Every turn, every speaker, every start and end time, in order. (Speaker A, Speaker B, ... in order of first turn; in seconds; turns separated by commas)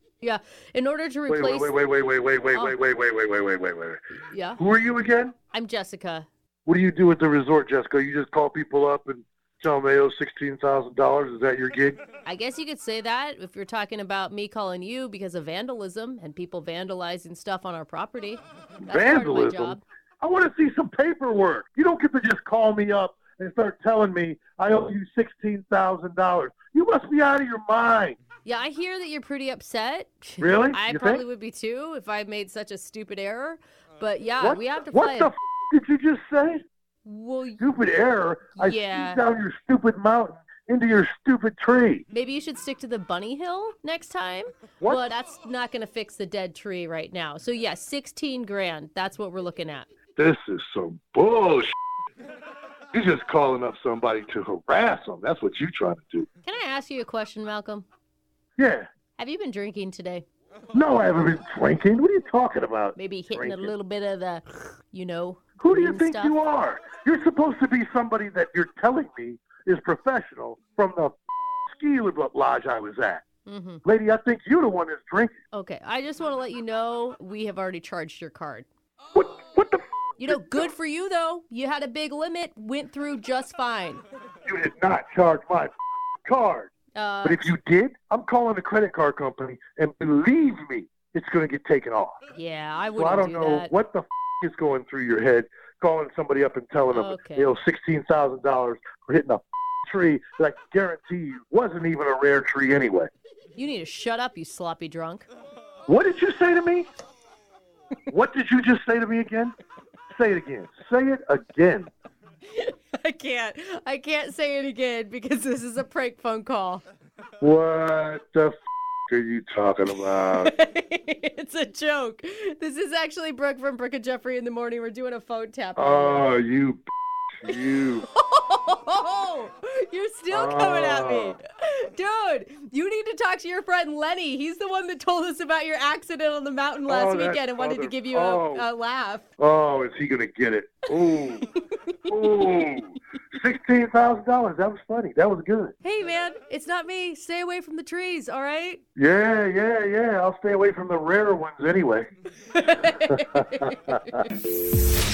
Speaker A: 0.2-1.8, Speaker B: 1.3-4.0, Speaker A: 4.3-4.6, Speaker B: 4.6-5.3, Speaker A: 5.5-6.3, Speaker B: 6.7-12.0, Speaker A: 12.2-19.8, Speaker B: 18.9-28.2, Speaker A: 28.4-35.3, Speaker B: 30.4-31.2, Speaker B: 34.4-36.6, Speaker A: 37.0-37.6, Speaker B: 37.6-42.0, Speaker A: 38.6-39.2, Speaker A: 42.1-49.9, Speaker B: 50.2-51.7, Speaker B: 52.9-56.3, Speaker A: 56.4-57.9, Speaker B: 58.6-58.9, Speaker A: 59.2-60.2, Speaker B: 60.7-63.7, Speaker A: 63.0-66.4, Speaker B: 65.6-71.2, Speaker B: 71.7-73.2, Speaker A: 73.5-73.8, Speaker B: 73.8-75.3, Speaker A: 75.5-78.7, Speaker B: 79.1-80.7, Speaker A: 80.2-84.0, Speaker B: 84.5-85.7, Speaker B: 86.2-86.7, Speaker A: 86.9-87.5, Speaker B: 87.2-92.2, Speaker A: 92.3-93.7, Speaker B: 93.0-103.1, Speaker A: 96.9-97.5, Speaker A: 103.6-105.3, Speaker B: 105.9-106.9, Speaker B: 108.1-109.5, Speaker B: 110.2-111.9, Speaker A: 112.5-116.8, Speaker B: 117.4-118.5, Speaker B: 119.1-120.5, Speaker A: 120.4-126.3, Speaker B: 125.8-126.9, Speaker B: 127.4-128.1, Speaker A: 128.1-139.3, Speaker B: 130.3-131.4, Speaker B: 136.9-138.7, Speaker B: 139.4-141.5, Speaker B: 142.1-145.7, Speaker A: 145.8-148.8, Speaker B: 149.0-152.1, Speaker A: 152.5-154.2, Speaker B: 153.1-154.0